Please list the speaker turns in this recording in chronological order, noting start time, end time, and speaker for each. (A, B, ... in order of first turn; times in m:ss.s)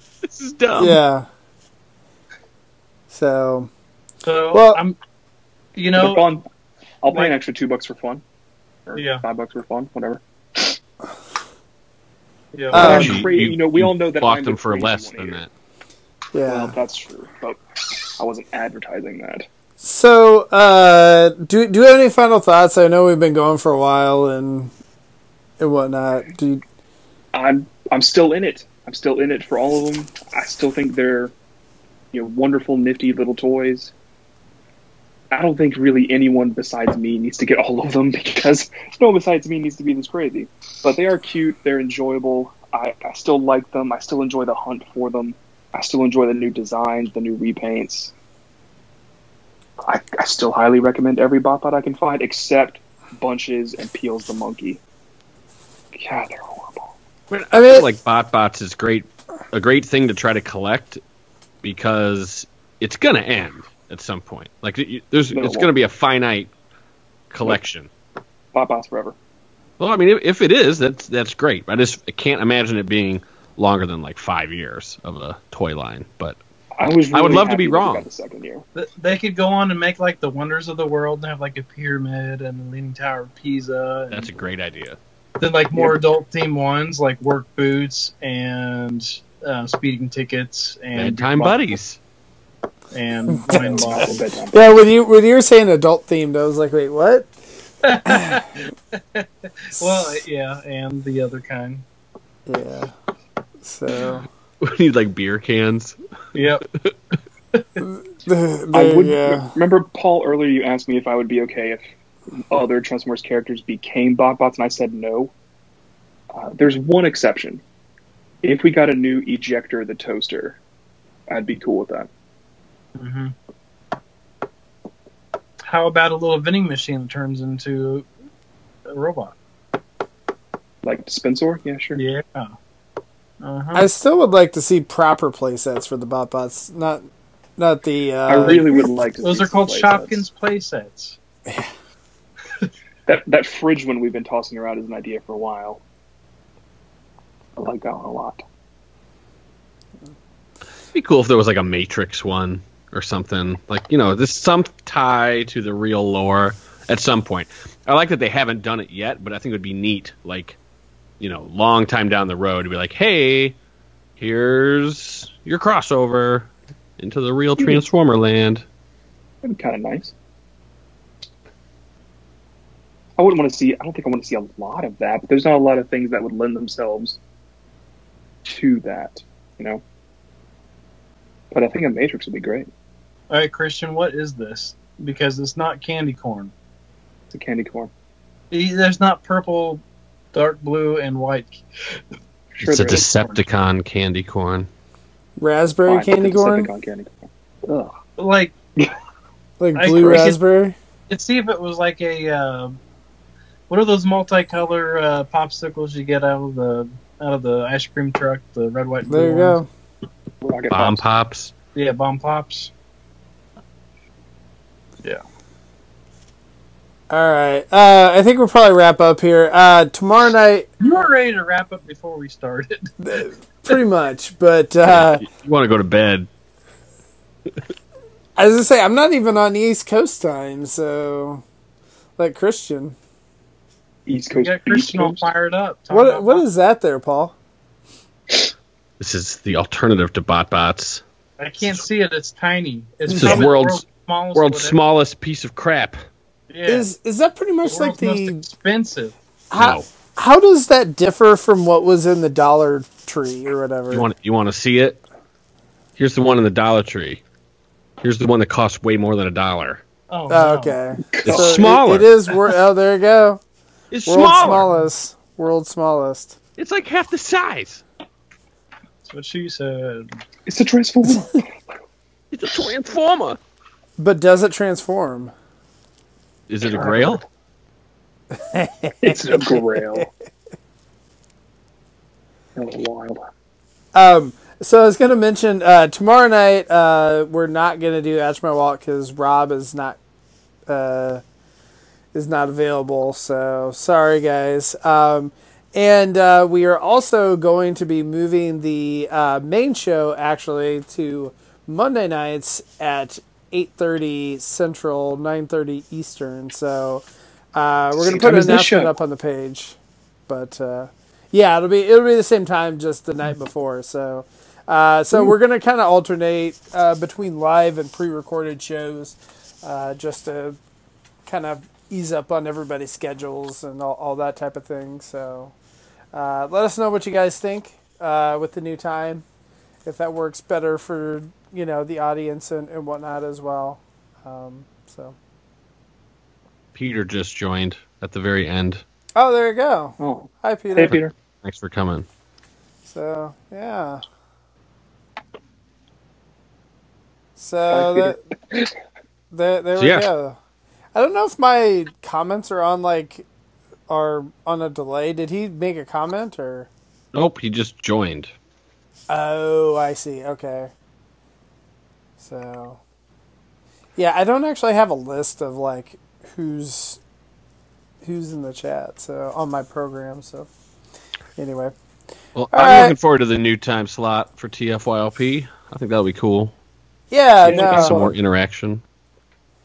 0:00.2-0:01.0 A
0:00.8-0:01.3 B
0:03.1-0:03.7 B
0:04.2-0:05.0 C
0:04.5-0:04.8 B
0:05.8-0:06.2 C
0:06.0-0:06.4 D
0:07.0-0:08.2 D
0:07.1-0:07.3 C
0:08.9-0:10.8 D
0:09.0-0:09.3 C
0:12.5-0:13.2 C
0:12.7-0:13.2 B
0:12.7-0:15.4 D
0:12.7-0:15.5 A
0:16.3-0:16.8 B
0:16.5-0:17.6 D
0:18.2-0:19.5 D
0:19.8-0:24.7 B
0:25.6-0:26.6 B
0:27.3-0:31.3 D
0:32.1-0:33.9 D
0:35.3-0:48.1 D
0:49.8-0:54.8 D
0:55.9-0:56.9 D
0:57.3-1:01.0 A
0:57.5-0:57.9 B
1:01.6-1:06.5 A
1:05.3-1:05.7 D
1:07.3-1:07.9 A
1:08.5-1:09.2 D
1:09.8-1:16.4 A
1:16.8-1:18.6 D
1:17.1-1:18.1 A
1:18.8-1:24.3 C
1:24.1-1:25.0 A
1:25.4-1:31.7 C
1:31.0-1:32.0 A
1:32.9-1:34.3 C
1:33.3-1:37.3 B
1:33.5-1:34.7 D
1:37.8-1:41.8 C
1:38.1-1:38.4 B
1:39.8-1:40.2 B
1:42.5-1:42.9 B
1:43.6-1:44.3 B
1:44.6-1:46.0 A
1:46.3-1:46.6 C
1:47.5-1:47.8 C
1:47.8-1:49.6 B
1:48.7-1:51.8 D
1:52.3-1:55.3 D
1:56.3-1:57.6 D
1:58.4-2:00.6 D
2:01.3-2:02.1 D
2:03.0-2:03.4 C
2:05.6-2:08.1 C
2:08.9-2:09.4 C
2:10.8-2:12.0 D
2:12.0-2:12.5 C
2:13.4-2:13.9 C
2:13.7-2:17.0 B
2:17.6-2:18.9 B
2:18.3-2:20.2 D
2:19.2-2:21.2 C
2:23.1-2:25.8 D
2:27.6-2:28.4 D
2:30.9-2:40.6 A
2:41.2-2:43.6 A
2:44.2-2:48.7 A
2:47.6-2:47.9 D
2:49.4-2:50.1 D
2:53.2-2:57.2 D
2:58.4-2:59.8 D
3:01.5-3:02.7 D
3:03.3-3:06.5 C
3:07.3-3:07.9 D
3:08.5-3:11.6 C
3:12.6-3:13.1 D
3:12.6-3:14.7 A
3:12.9-3:13.4 C
3:15.4-3:16.7 B
3:15.9-3:17.9 D
3:18.2-3:18.5 C
3:19.6-3:20.8 B
3:19.8-3:20.4 C
3:21.1-3:22.8 C
3:23.7-3:29.6 C
3:29.1-3:29.7 B
3:30.4-3:31.0 D
3:30.7-3:31.5 A
3:31.8-3:32.7 C
3:37.1-3:40.7 B
3:40.8-3:42.9 C
3:43.0-3:45.3 B
3:44.9-3:46.3 A
3:48.4-3:51.4 B
3:52.2-3:53.0 B
3:54.1-3:55.3 D
3:54.3-3:56.4 C
3:55.9-3:57.4 B
3:59.0-4:01.0 A
4:01.4-4:04.8 C
4:03.1-4:03.8 A
4:04.4-4:06.0 A
4:06.5-4:06.9 C
4:06.7-4:08.4 B
4:07.6-4:09.2 C
4:09.5-4:14.1 B
4:09.6-4:09.9 A
4:13.9-4:15.0 A
4:16.0-4:17.2 A
4:18.0-4:19.8 A
4:20.1-4:20.8 C
4:20.3-4:23.4 B
4:21.1-4:21.8 D
4:21.3-4:22.1 A
4:23.9-4:24.7 A
4:24.1-4:26.4 B
4:24.4-4:24.9 C
4:26.6-4:27.8 A
4:29.1-4:30.2 C
4:30.5-4:31.5 D
4:32.3-4:33.4 A
4:34.0-4:35.3 B
4:36.5-4:37.2 A
4:36.7-4:37.2 D
4:38.3-4:40.1 B
4:39.0-4:40.1 D
4:42.6-4:43.2 D
4:43.9-4:50.0 B
4:50.7-4:51.2 B
4:52.1-5:09.8 B
5:07.9-5:08.9 D
5:10.3-5:20.6 B
5:21.3-5:25.5 B
5:26.1-5:29.2 B
5:29.8-5:35.2 B
5:36.8-5:38.8 A
5:39.2-5:41.0 B
5:40.0-5:41.1 D
5:40.8-5:42.1 A
5:42.9-5:44.0 B
5:47.4-5:48.2 B
5:47.7-5:48.7 D
5:49.3-5:50.4 B
5:49.8-5:50.1 A
5:50.9-5:53.3 B
5:53.9-5:56.7 B
5:57.1-5:58.3 A
5:59.1-6:00.7 B
6:02.2-6:02.8 B
6:04.0-6:07.0 B
6:08.0-6:10.5 B
6:11.4-6:11.7 B
6:12.4-6:16.6 A
6:12.5-6:13.0 B
6:17.1-6:18.1 B
6:17.4-6:18.8 A
6:17.5-6:18.0 D